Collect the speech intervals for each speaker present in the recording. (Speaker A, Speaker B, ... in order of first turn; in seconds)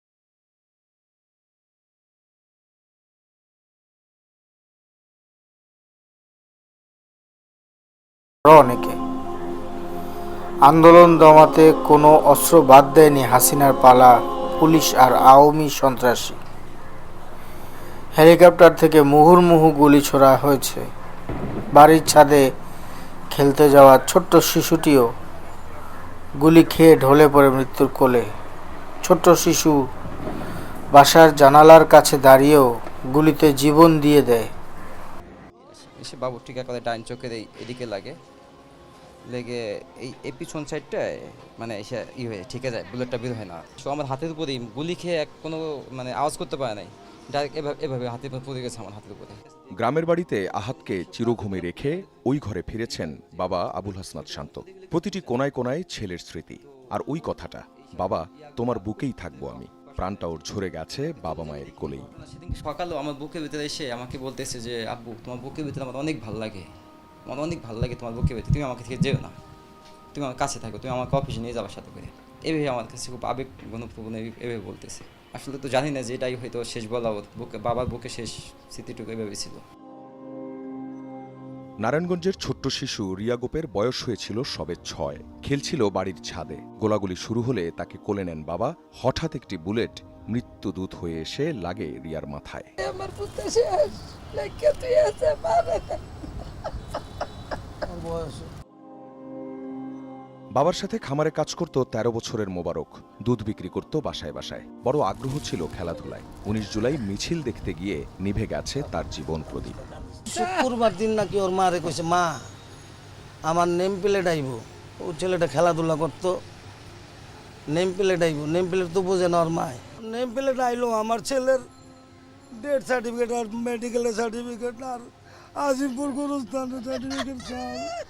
Speaker A: 8.4-9.0, 10.7-16.4, 18.1-20.9, 21.7-22.4, 23.3-25.1, 26.4-28.3, 29.0-29.8, 30.9-34.5
Speaker B: 35.6-38.2, 39.3-49.4, 61.4-66.7, 67.2-69.4, 70.1-79.6
Speaker C: 49.8-62.1, 81.8-92.7, 100.5-109.8
Speaker D: 92.8-96.0
Speaker E: 97.9-98.5, 110.3-112.4, 113.4-116.4, 117.7-121.7, 122.5-127.9